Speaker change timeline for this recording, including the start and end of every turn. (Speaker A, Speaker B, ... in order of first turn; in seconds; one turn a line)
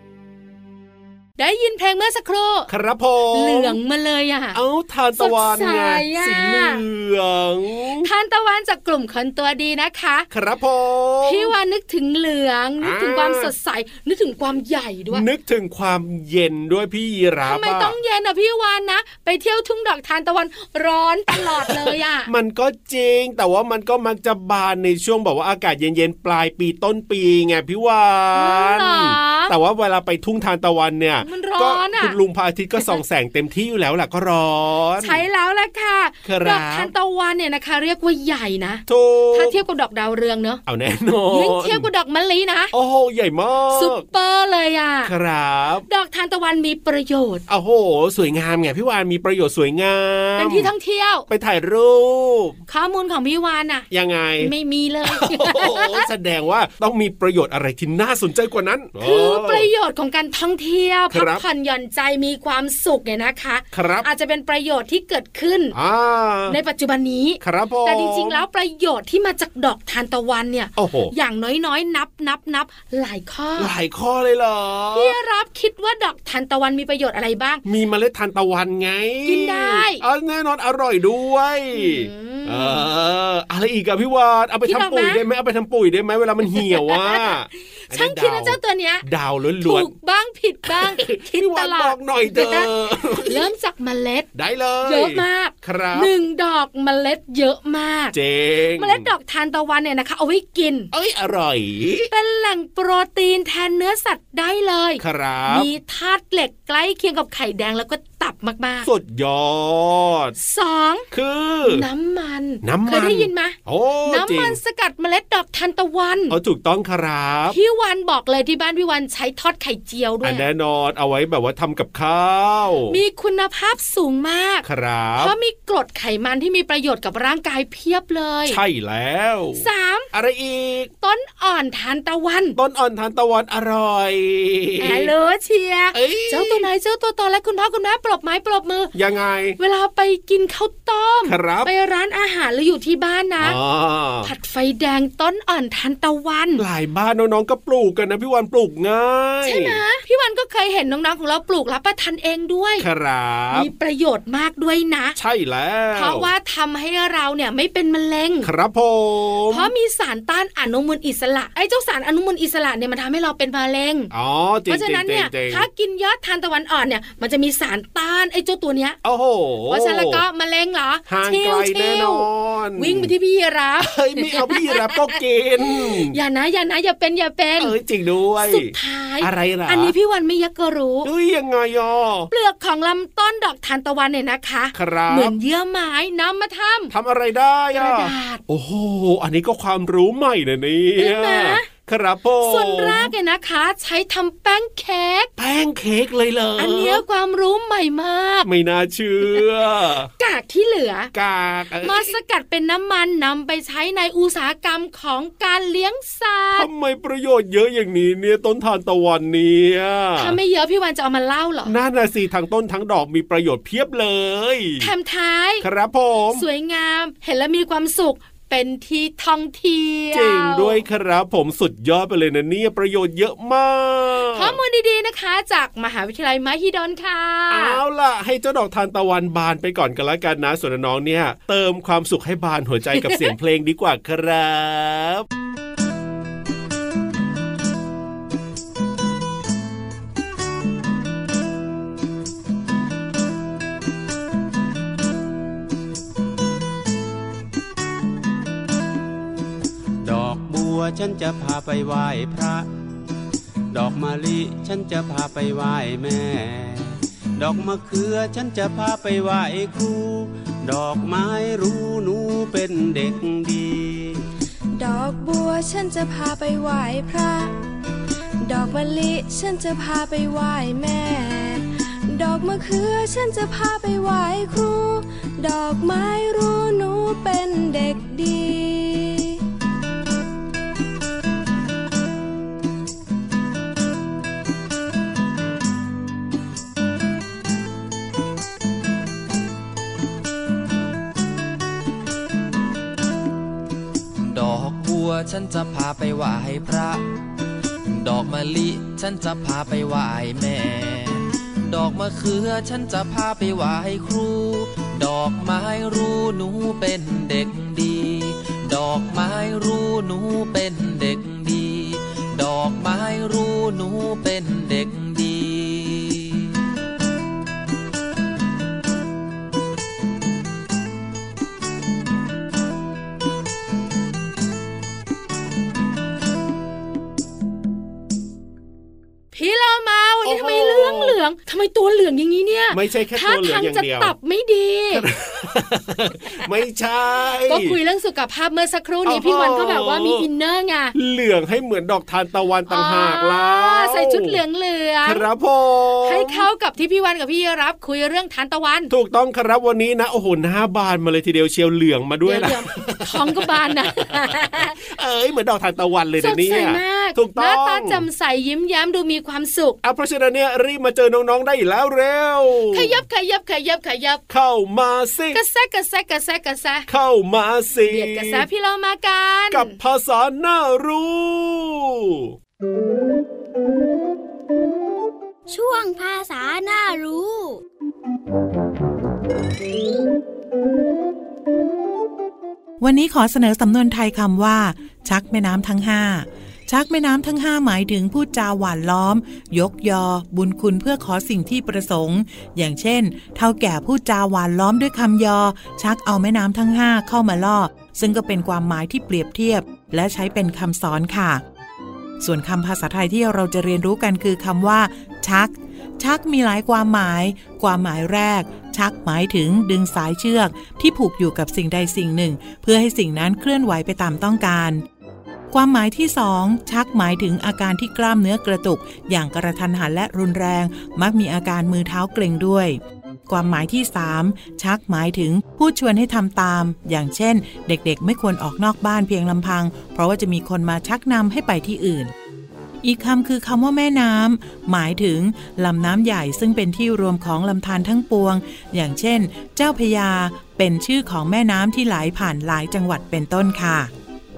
Speaker A: 1.4-2.7
Speaker B: 2.7-3.8
Speaker A: 3.3-4.6
Speaker B: 4.5-8.1
Speaker A: 5.2-6.8
Speaker A: 8.0-10.3
Speaker B: 10.3-11.6
Speaker A: 11.2-15.3
Speaker B: 12.8-13.5
Speaker B: 15.1-17.9
Speaker A: 17.4-22.3
Speaker B: 21.4-35.2
Speaker A: 28.3-29.5
Speaker A: 31.2-32.2
Speaker A: 35.0-40.6
Speaker B: 36.2-36.9
Speaker B: 38.9-39.6
Speaker B: 40.7-41.9
Speaker A: 41.3-42.7
Speaker B: 42.7-44.1
Speaker A: 43.7-45.1
Speaker B: 45.0-45.9
Speaker A: 45.9-47.4
Speaker B: 47.5-50.7
Speaker A: 50.4-51.3
Speaker B: 51.3-52.6
Speaker A: 52.7-53.9
Speaker B: 53.9-54.5
Speaker A: 54.4-56.1
Speaker B: 55.1-59.7
Speaker A: 59.0-65.8
Speaker B: 61.1-61.4
Speaker B: 63.7-64.1
Speaker B: 65.7-66.6
Speaker A: 66.5-73.7
Speaker B: 67.4-68.4
Speaker B: 70.8-71.1
Speaker B: 73.6-75.2
Speaker A: 74.9-77.6
Speaker B: 77.7-89.9
Speaker A: 79.3-80.0
Speaker A: 81.7-82.9
Speaker A: 84.7-85.2
Speaker A: 86.5-87.3
Speaker A: 87.9-89.0
Speaker A: 89.6-94.3
Speaker B: 90.7-93.5
Speaker B: 94.3-96.1
Speaker A: 94.8-98.2
Speaker B: 98.1-99.1
Speaker A: 98.8-100.9
Speaker B: 100.9-102.1
Speaker A: 102.1-108.9
Speaker B: 105.0-105.7
Speaker B: 108.8-110.4
Speaker A: 110.4-111.1
Speaker B: 111.1-111.9
Speaker A: 111.6-116.4
Speaker B: 112.6-114.6
Speaker B: 116.3-117.6
Speaker A: 117.5-120.5
Speaker B: 120.2-123.0
Speaker A: 122.9-124.7
Speaker B: 124.6-125.3
Speaker A: 125.2-128.6
Speaker B: 128.5-130.9
Speaker A: 129.6-130.1
Speaker A: 131.0-132.6
Speaker B: 132.6-135.1
Speaker A: 134.8-138.9
Speaker B: 135.9-136.7
Speaker B: 138.9-139.6
Speaker A: 139.6-143.6
Speaker B: 141.2-141.7
Speaker B: 143.4-144.3
Speaker A: 144.2-146.6
Speaker B: 146.6-149.8
Speaker A: 149.4-152.9
Speaker B: 152.8-153.7
Speaker A: 153.5-155.2
Speaker B: 155.2-156.3
Speaker A: 155.9-158.5
Speaker B: 158.4-159.7
Speaker A: 159.5-164.1
Speaker B: 164.1-165.7
Speaker A: 164.7-169.0
Speaker B: 169.0-170.2
Speaker A: 169.7-175.1
Speaker B: 171.1-173.1
Speaker B: 173.8-176.2
Speaker A: 175.7-177.8
Speaker B: 177.6-179.9
Speaker A: 178.4-181.1
Speaker B: 181.0-182.3
Speaker A: 182.3-186.9
Speaker B: 184.7-185.3
Speaker B: 186.9-193.1
Speaker A: 187.7-188.4
Speaker A: 191.0-191.7
Speaker A: 192.4-195.3
Speaker B: 195.4-197.0
Speaker A: 196.6-198.5
Speaker B: 198.4-200.1
Speaker A: 200.2-201.1
Speaker B: 201.1-202.1
Speaker A: 201.8-206.7
Speaker B: 206.5-210.4
Speaker A: 210.2-211.7
Speaker B: 211.7-214.9
Speaker A: 214.8-215.7
Speaker B: 215.6-216.4
Speaker A: 216.3-220.8
Speaker B: 220.1-224.6
Speaker A: 224.3-227.8
Speaker B: 227.5-235.3
Speaker A: 233.0-233.3
Speaker C: 250.0-252.7
Speaker C: 253.7-264.2
Speaker D: 264.8-267.6
Speaker D: 268.4-279.4
Speaker E: 294.2-297.0
Speaker E: 297.9-316.5
Speaker A: 329.3-335.1
Speaker B: 330.2-331.2
Speaker B: 332.7-334.1
Speaker B: 334.9-337.8
Speaker A: 337.5-340.9
Speaker B: 339.1-340.3
Speaker B: 340.9-344.4
Speaker A: 342.7-345.3
Speaker B: 345.0-346.5
Speaker A: 346.0-348.9
Speaker B: 348.9-358.1
Speaker A: 352.3-354.7
Speaker A: 356.2-359.8
Speaker B: 359.8-362.9
Speaker A: 362.7-364.2
Speaker B: 364.3-365.4
Speaker A: 365.3-366.9
Speaker B: 366.9-368.5
Speaker A: 367.9-369.8
Speaker B: 369.5-372.3
Speaker F: 375.5-377.6
Speaker G: 382.8-401.4
Speaker G: 402.2-414.8
Speaker G: 415.5-432.1
Speaker G: 432.8-443.9